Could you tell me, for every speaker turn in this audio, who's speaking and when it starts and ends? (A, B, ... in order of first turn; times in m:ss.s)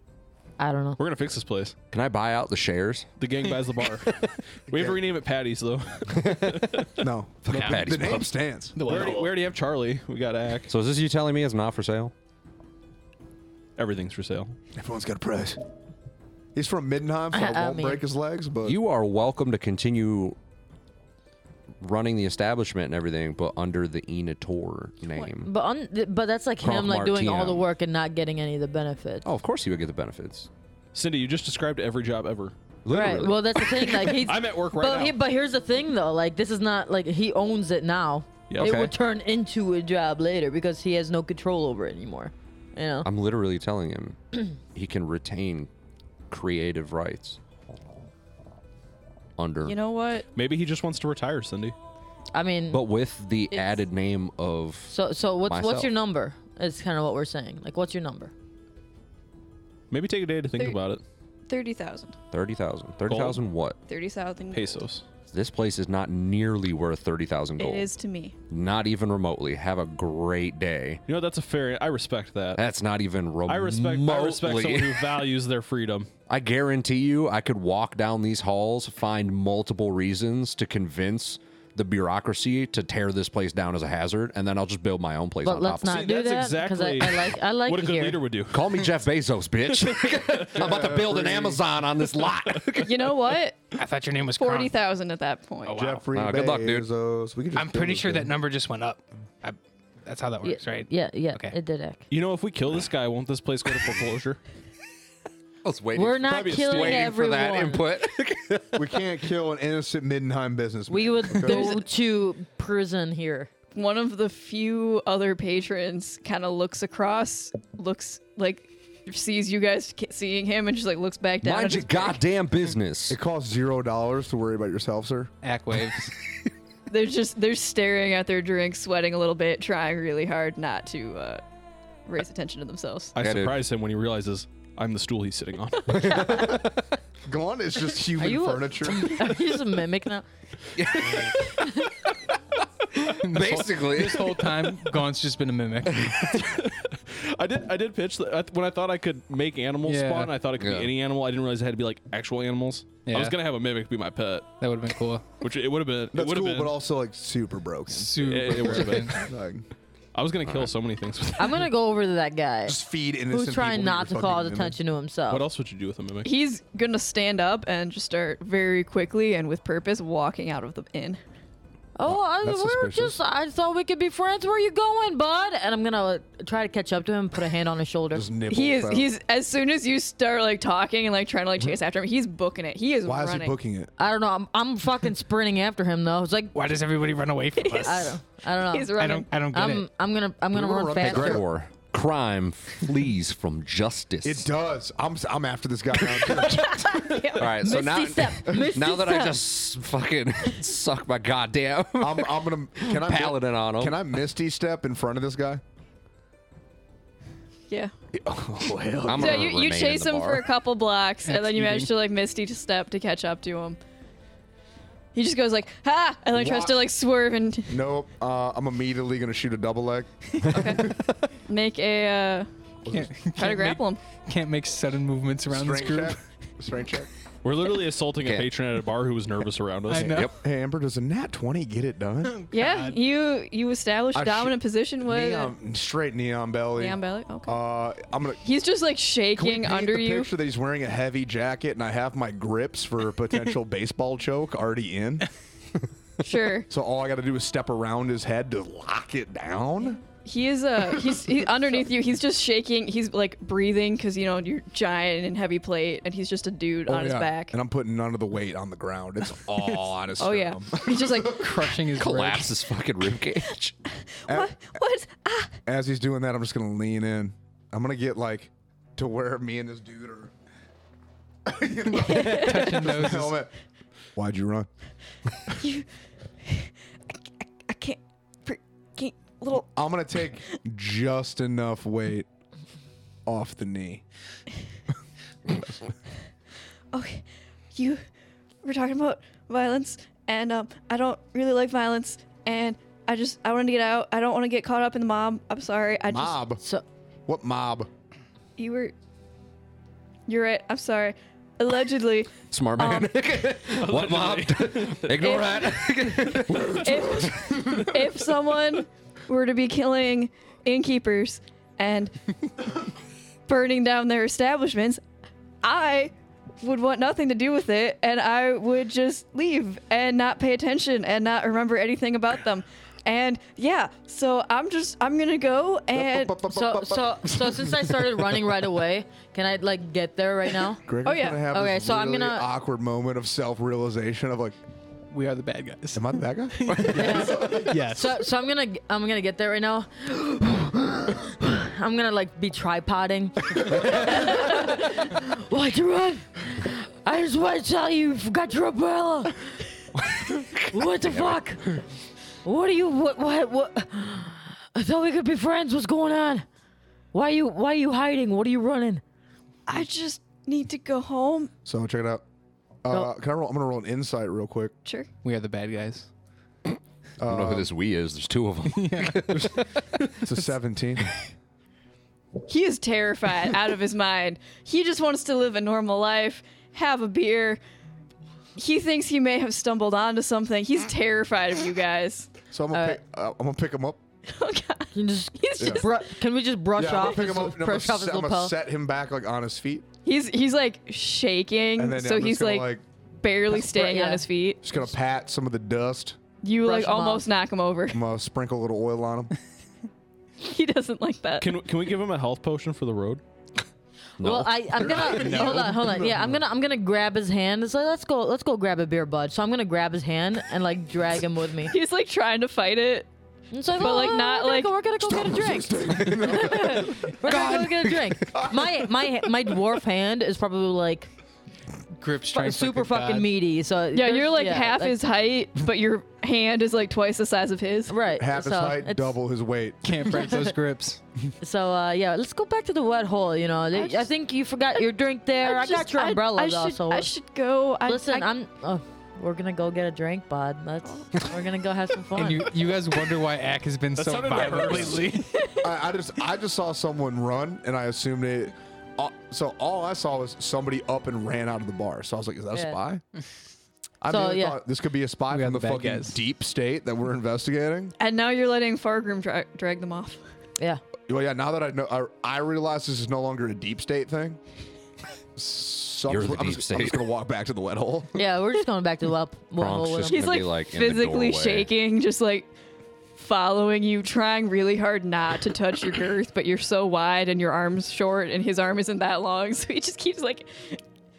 0:00.6-0:01.0 A
0:01.0-0:01.7 B
0:01.9-0:03.1 C
0:03.2-0:07.0 B
0:04.0-0:04.3 C
0:04.7-0:05.0 D
0:06.1-0:06.9 C
0:07.0-0:08.8 D
0:07.4-0:08.4 C
0:08.7-0:09.3 E
0:08.8-0:10.7 B
0:10.7-0:12.1 C
0:13.8-0:14.6 B
0:14.7-0:15.6 D
0:16.5-0:18.8 D
0:17.3-0:18.0 A
0:18.6-0:20.4 C
0:21.8-0:25.5 C
0:25.4-0:29.3 A
0:26.6-0:27.7 C
0:29.2-0:30.5 C
0:30.9-0:32.6 B
0:32.8-0:33.8 C
0:32.9-0:43.1 A
0:33.9-0:35.1 B
0:38.5-0:38.8 B
0:38.6-0:38.9 C
0:43.0-0:45.7 C
0:46.3-0:47.4 C
0:49.4-0:49.8 C
0:49.6-0:50.2 F
0:50.3-0:51.8 B
0:52.3-0:52.8 A
0:52.7-0:55.9 C
0:54.9-0:58.3 A
0:59.9-1:01.0 B
1:01.5-1:02.1 F
1:02.3-1:03.8 C
1:03.1-1:03.4 B
1:03.9-1:04.8 F
1:04.5-1:05.0 B
1:05.3-1:07.9 C
1:07.6-1:08.4 F
1:08.5-1:11.0 C
1:11.1-1:12.6 B
1:12.6-1:15.1 C
1:13.5-1:16.1 B
1:16.3-1:26.0 C
1:25.4-1:28.2 A
1:25.9-1:28.9 B
1:28.5-1:33.1 C
1:29.9-1:30.2 B
1:30.5-1:31.6 D
1:32.8-1:33.7 F
1:33.8-1:34.7 E
1:34.4-1:35.9 F
1:35.6-1:36.0 E
1:35.7-1:38.3 D
1:36.1-1:36.9 C
1:37.5-1:41.6 E
1:40.4-1:42.0 A
1:42.1-1:44.4 B
1:45.6-1:49.0 C
1:45.9-1:47.8 A
1:46.2-1:47.1 B
1:48.7-1:51.7 D
1:50.9-1:53.5 A
1:51.4-1:51.8 F
1:53.7-2:02.2 F
2:01.4-2:03.2 C
2:03.1-2:05.3 D
2:05.4-2:06.1 E
2:06.9-2:11.4 F
2:12.0-2:13.1 F
2:13.1-2:16.2 B
2:13.2-2:13.6 C
2:15.9-2:16.7 C
2:17.2-2:19.3 D
2:18.2-2:20.2 A
2:20.8-2:22.4 C
2:21.6-2:21.9 A
2:22.9-2:24.9 C
2:23.2-2:26.2 E
2:25.8-2:26.5 C
2:26.3-2:34.5 B
2:29.8-2:30.4 E
2:30.6-2:30.9 C
2:33.0-2:33.4 E
2:34.6-2:35.3 E
2:35.4-2:36.8 B
2:36.1-2:39.6 D
2:37.9-2:39.2 E
2:38.2-2:39.2 B
2:40.1-2:41.7 B
2:40.4-2:40.7 C
2:41.4-2:45.4 A
2:42.6-2:44.8 D
2:45.3-2:46.3 B
2:46.2-2:51.2 F
2:52.0-2:58.3 A
2:52.0-2:53.2 D
2:58.1-2:59.1 D
2:58.5-3:03.6 F
3:03.0-3:03.9 D
3:04.0-3:06.6 A
3:06.5-3:08.2 E
3:07.6-3:08.0 F
3:07.8-3:11.4 A
3:08.7-3:09.3 F
3:09.0-3:09.8 E
3:10.5-3:11.4 D
3:11.0-3:14.5 C
3:14.2-3:17.0 D
3:16.3-3:17.5 F
3:17.3-3:24.0 C
3:17.6-3:19.4 A
3:22.0-3:25.6 D
3:28.1-3:29.5 D
3:29.0-3:30.5 C
3:29.1-3:33.8 F
3:31.2-3:31.9 E
3:35.1-3:37.8 F
3:36.3-3:36.9 D
3:37.7-3:40.9 D
3:40.4-3:40.9 F
3:40.6-3:40.9 C
3:41.5-3:42.5 F
3:42.9-3:46.2 E
3:43.3-3:44.0 F
3:45.5-3:47.1 D
3:47.4-3:50.3 B
3:48.2-3:48.5 C
3:49.9-3:50.3 E
3:50.0-3:50.4 C
3:50.3-3:52.4 D
3:52.2-3:53.0 E
3:52.5-3:55.5 F
3:54.1-3:58.4 D
3:56.8-3:57.6 F
3:58.4-4:00.3 F
3:59.4-4:05.3 D
4:06.2-4:06.7 F
4:06.7-4:10.0 D
4:10.1-4:17.5 F
4:16.8-4:21.5 D
4:20.2-4:21.6 F
4:21.3-4:22.5 E
4:21.9-4:23.7 C
4:24.2-4:25.6 F
4:24.3-4:24.6 D
4:25.6-4:30.3 D
4:31.4-4:33.5 D
4:32.0-4:32.9 F
4:32.0-4:33.4 E
4:34.2-4:34.7 D
4:35.6-4:35.9 F
4:36.4-4:39.8 F
4:39.7-4:42.3 D
4:43.2-4:44.0 D
4:46.9-4:48.0 F
4:48.6-4:56.4 F
4:56.1-4:56.6 D
4:57.3-4:57.9 D
4:58.6-4:58.9 F
5:00.3-5:03.1 F
5:02.5-5:07.4 C
5:03.7-5:05.3 B
5:05.2-5:12.3 F
5:06.8-5:07.5 D
5:13.5-5:15.0 F
5:15.6-5:26.4 F
5:25.9-5:28.5 D
5:26.5-5:30.8 A
5:30.8-5:34.6 D
5:31.0-5:31.4 F
5:31.5-5:32.5 A
5:35.1-5:38.2 E
5:35.9-5:37.8 D
5:36.9-5:49.6 A
5:50.0-5:51.4 C
5:50.7-5:51.7 A
5:52.4-5:56.4 A
5:57.1-5:59.0 A
5:59.7-6:01.5 F
6:01.6-6:02.2 D
6:02.8-6:04.7 D
6:05.2-6:06.1 E
6:07.2-6:07.7 D
6:07.2-6:09.8 C
6:08.7-6:09.5 E
6:10.2-6:11.0 D
6:12.5-6:17.6 F
6:18.6-6:22.4 F
6:22.5-6:24.0 D
6:22.7-6:23.0 A
6:24.2-6:26.0 F
6:24.9-6:28.6 A
6:25.6-6:25.8 D
6:26.7-6:29.8 D
6:30.0-6:34.7 F
6:31.8-6:32.8 D
6:33.6-6:34.2 A
6:34.6-6:36.2 D
6:36.4-6:38.0 F
6:36.6-6:37.3 A
6:37.9-6:39.3 D
6:40.4-6:41.6 F
6:41.4-6:43.2 B
6:44.2-6:45.2 C
6:44.2-6:51.7 A
6:44.8-6:46.4 D
6:45.3-6:45.6 E
6:51.7-6:53.1 F
6:53.5-7:01.1 A
6:53.7-6:54.7 F
6:55.0-6:57.3 D
6:57.3-6:57.7 C
6:58.3-6:58.8 D
7:02.0-7:03.3 E
7:02.3-7:05.0 A
7:03.9-7:07.9 F
7:07.9-7:09.2 A
7:08.2-7:10.2 D
7:09.8-7:11.0 E
7:11.4-7:17.1 A
7:13.7-7:14.1 F
7:15.4-7:18.3 F
7:17.8-7:22.6 A
7:22.2-7:25.5 E
7:24.0-7:25.1 B
7:25.4-7:25.6 F
7:25.6-7:33.0 D
7:34.0-7:37.9 D
7:34.1-7:34.6 A
7:35.3-7:36.2 E
7:38.0-7:40.2 F
7:41.1-7:44.4 D
7:45.4-7:48.2 D
7:46.1-7:47.0 C
7:48.1-7:50.2 A
7:49.6-7:51.7 C
7:50.1-7:52.5 F
7:53.2-8:00.8 F